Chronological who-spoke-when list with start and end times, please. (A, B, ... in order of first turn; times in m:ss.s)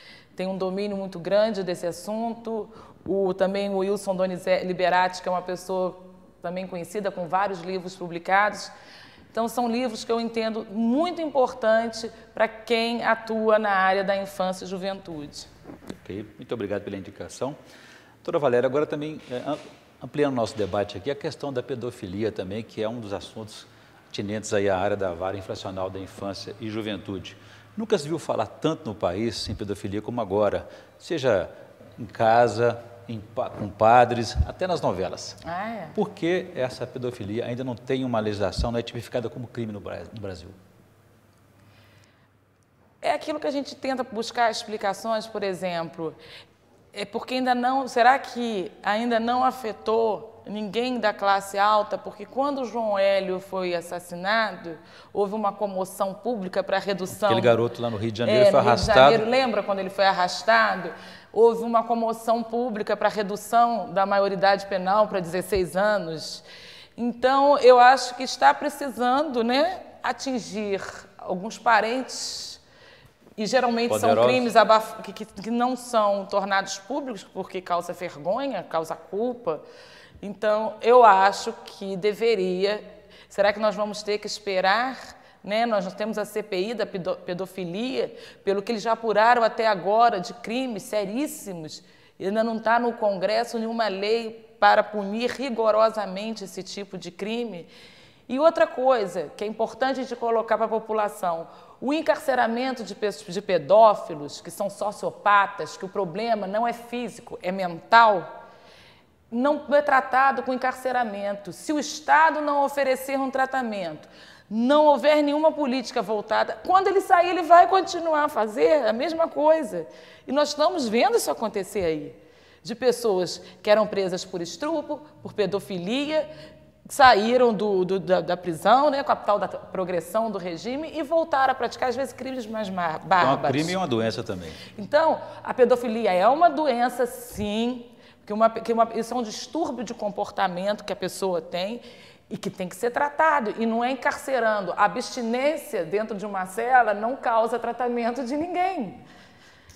0:00.4-0:08.7 A
0:09.3-0:15.5 A
0:15.9-0:17.6 B
0:18.2-0:35.4 B
0:35.4-0:36.0 A
0:36.0-0:40.6 B
0:43.0-0:46.2 A
0:46.9-0:57.6 A
0:57.1-0:59.2 B
0:58.2-1:06.4 A
1:07.0-1:12.6 A
1:13.4-1:19.6 A
1:13.9-1:14.5 B
1:20.2-1:37.7 A
1:38.3-1:48.3 A
1:49.3-2:06.3 A
2:06.9-2:13.8 A
2:13.2-2:14.6 B
2:14.7-2:29.0 A